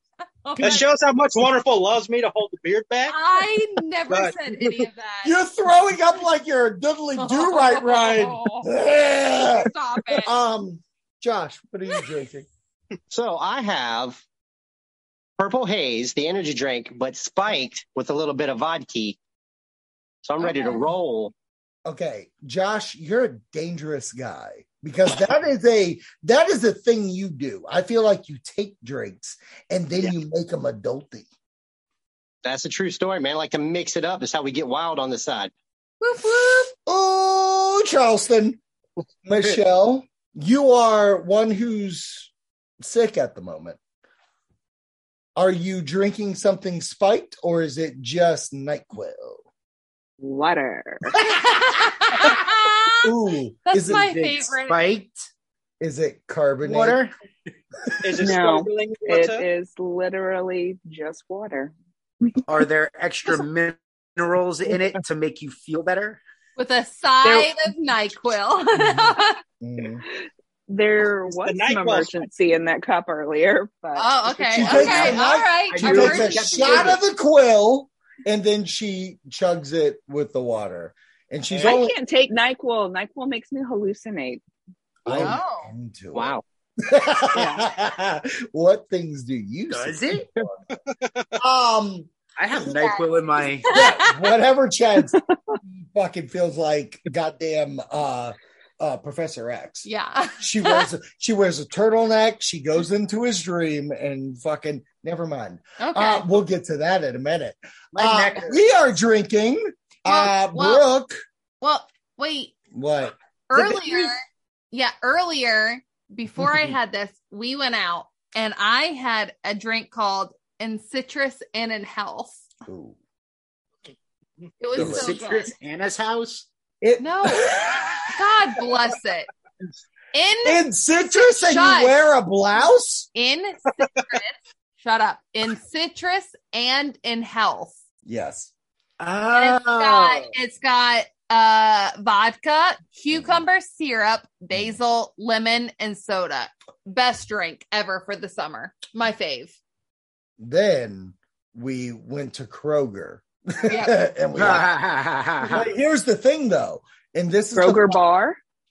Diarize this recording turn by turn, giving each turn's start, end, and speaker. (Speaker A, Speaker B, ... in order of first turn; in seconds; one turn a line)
Speaker A: 0.4-0.8
Speaker B: 0.6-3.2
Speaker A: 3.1-5.4
Speaker B: 4.1-4.8
Speaker C: 5.2-12.5
Speaker A: 7.2-8.7
Speaker A: 9.4-10.3
Speaker D: 13.1-14.2
Speaker D: 15.4-19.2
Speaker D: 20.2-21.3
Speaker A: 20.4-20.8
Speaker C: 21.9-31.3
Speaker D: 32.4-35.5
Speaker A: 36.0-36.7
Speaker C: 36.9-38.6
Speaker C: 39.2-43.8
Speaker C: 45.4-49.4
Speaker E: 50.2-51.3
Speaker A: 51.2-53.1
Speaker C: 53.0-54.4
Speaker A: 53.7-54.8
Speaker F: 53.9-55.2
Speaker C: 55.8-57.0
Speaker F: 56.6-57.1
Speaker B: 58.0-59.5
Speaker E: 58.2-61.7
Speaker F: 62.5-66.2
Speaker A: 66.6-69.4
Speaker C: 69.6-70.0
Speaker E: 70.7-74.9
Speaker B: 71.2-72.3
Speaker A: 74.0-77.0
Speaker C: 74.5-82.0
Speaker F: 74.6-77.0
Speaker E: 81.6-84.4
Speaker C: 85.0-90.5
Speaker A: 85.1-85.7
Speaker D: 86.1-86.4
Speaker E: 87.3-87.7
Speaker F: 89.7-90.3
Speaker C: 91.4-92.1
Speaker F: 92.4-93.7
Speaker A: 92.5-93.0
Speaker A: 93.6-94.2
Speaker C: 93.7-95.1
Speaker C: 95.7-99.9
Speaker A: 99.8-100.9
Speaker C: 100.4-111.2
Speaker A: 105.8-106.3
Speaker F: 107.9-108.6
Speaker A: 110.0-110.8
Speaker A: 111.6-112.5
Speaker C: 112.7-113.1
Speaker A: 113.5-122.4
Speaker F: 113.5-114.1
Speaker C: 122.7-123.0
Speaker A: 124.6-125.5
Speaker F: 124.7-126.5
Speaker C: 124.7-125.1
Speaker C: 126.8-128.1
Speaker A: 127.0-129.3
Speaker A: 130.1-132.1
Speaker C: 130.4-133.1
Speaker A: 133.1-137.8
Speaker C: 138.0-138.5
Speaker F: 139.0-140.3
Speaker A: 139.3-149.6
Speaker C: 143.1-143.4
Speaker C: 150.4-154.8
Speaker A: 153.7-154.0
Speaker F: 154.3-155.7
Speaker C: 155.4-158.0
Speaker E: 157.5-158.4